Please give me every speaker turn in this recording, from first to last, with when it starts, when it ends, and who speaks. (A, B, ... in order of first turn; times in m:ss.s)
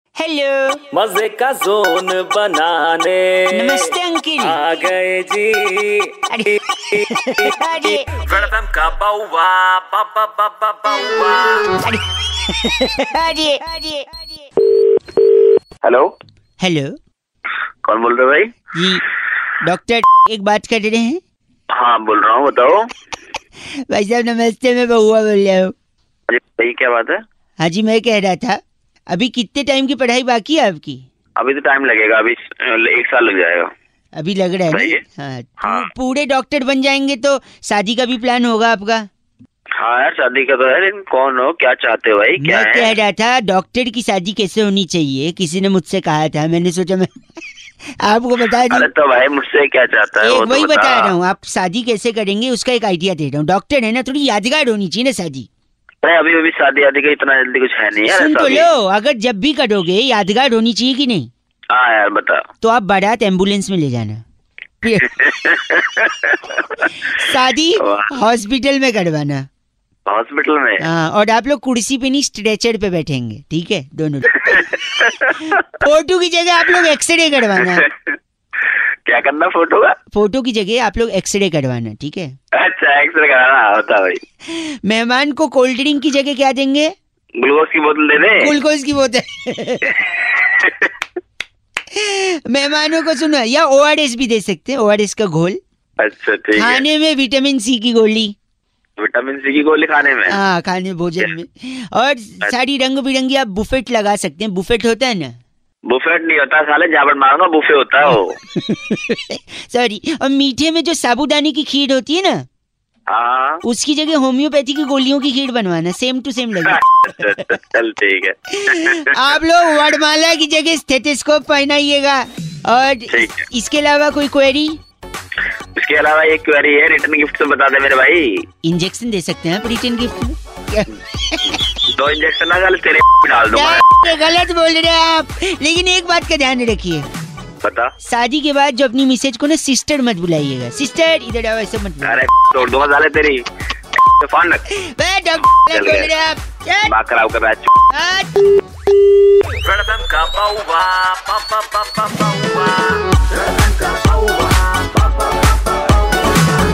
0:00.2-0:00.8 A
0:00.9-0:11.8 B
0:03.5-0:04.6 A
0:06.3-0:08.3 A
0:11.8-0:14.4 A
0:15.8-0:16.1 C
0:16.6-0:16.9 A
0:17.8-0:18.6 C
0:18.7-0:19.0 A
0:19.6-0:21.2 A
0:21.7-0:22.8 C
0:23.9-0:25.7 A
0:26.3-0:27.2 C
0:27.6-0:28.6 A
0:29.1-0:31.0 A
0:31.4-0:33.7 C
0:34.1-0:39.0 A
0:34.7-0:35.0 C
0:35.6-0:35.9 C
0:39.8-0:42.9 C
0:42.4-0:47.1 A
0:48.0-0:48.9 A
0:48.7-0:51.1 C
0:50.2-0:55.5 A
0:56.0-0:58.7 C
0:58.0-1:01.3 A
1:01.7-1:02.4 C
1:02.6-1:04.2 A
1:04.8-1:05.1 A
1:05.1-1:06.9 C
1:07.1-1:09.4 A
1:07.8-1:08.1 C
1:10.1-1:10.8 C
1:10.8-1:14.7 A
1:14.4-1:15.6 C
1:15.5-1:17.8 A
1:17.6-1:17.8 C
1:19.1-1:19.9 C
1:20.1-1:22.3 A
1:22.6-1:24.2 C
1:24.5-1:26.9 A
1:27.4-1:28.5 C
1:28.3-1:30.0 A
1:30.1-1:30.9 C
1:31.9-1:35.6 A
1:36.0-1:36.8 C
1:36.6-1:38.3 A
1:39.0-1:40.4 C
1:40.3-1:45.3 A
1:45.9-1:48.4 C
1:48.5-1:52.4 A
1:53.1-1:53.6 C
1:53.6-1:57.2 A
1:56.7-1:59.2 C
1:58.5-2:04.8 A
2:03.1-2:03.4 C
2:05.8-2:08.4 C
2:08.6-2:11.6 A
2:11.9-2:14.1 C
2:13.5-2:17.0 A
2:17.6-2:17.9 C
2:18.0-2:22.2 A
2:22.0-2:23.4 C
2:24.2-2:24.6 C
2:24.7-2:26.9 A
2:25.6-2:26.1 C
2:26.8-2:27.7 C
2:27.9-2:28.5 A
2:29.6-2:35.8 B